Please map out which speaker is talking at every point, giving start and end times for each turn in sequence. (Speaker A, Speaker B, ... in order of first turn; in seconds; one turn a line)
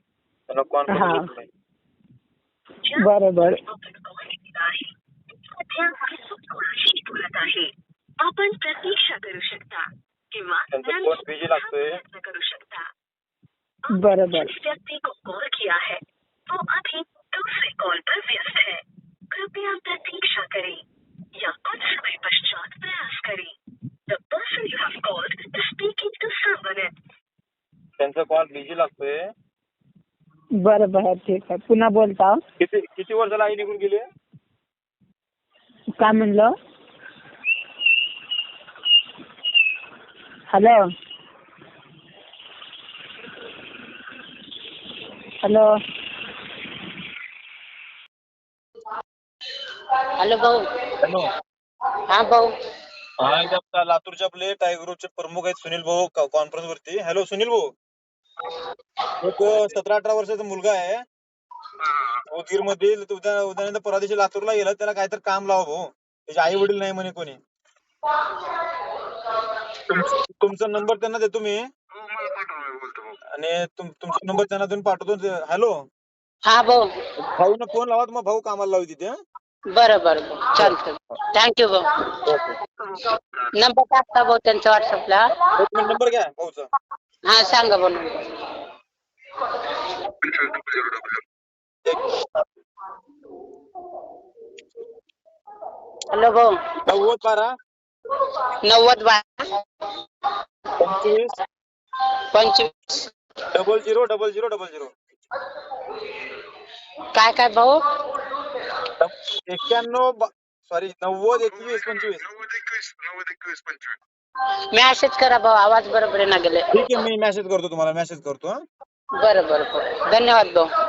Speaker A: 0.5-1.5
Speaker B: 0.9-1.3
Speaker B: 3.0-3.6
Speaker C: 3.7-4.9
Speaker C: 5.6-12.9
Speaker A: 10.7-12.0
Speaker C: 13.9-20.8
Speaker B: 13.9-14.5
Speaker C: 21.3-23.5
Speaker C: 24.1-26.9
Speaker A: 28.0-29.2
Speaker B: 30.6-32.4
Speaker A: 32.6-34.1
Speaker B: 36.0-36.5
Speaker B: 40.5-40.8
Speaker D: 50.2-50.6
Speaker A: 51.0-51.3
Speaker D: 52.1-52.5
Speaker A: 53.2-57.7
Speaker A: 59.2-61.0
Speaker A: 62.1-67.4
Speaker A: 69.9-71.7
Speaker A: 73.3-75.8
Speaker D: 76.4-76.9
Speaker A: 77.2-79.2
Speaker D: 79.7-81.9
Speaker A: 82.3-82.6
Speaker D: 83.6-85.3
Speaker A: 85.6-86.7
Speaker D: 87.2-88.2
Speaker A: 91.8-92.2
Speaker D: 96.1-96.5
Speaker A: 96.8-97.5
Speaker D: 98.6-99.4
Speaker A: 100.8-101.4
Speaker D: 102.3-102.7
Speaker A: 103.5-104.9
Speaker D: 107.1-107.8
Speaker A: 109.0-112.4
Speaker D: 114.7-116.7
Speaker A: 116.7-118.6
Speaker D: 119.2-120.7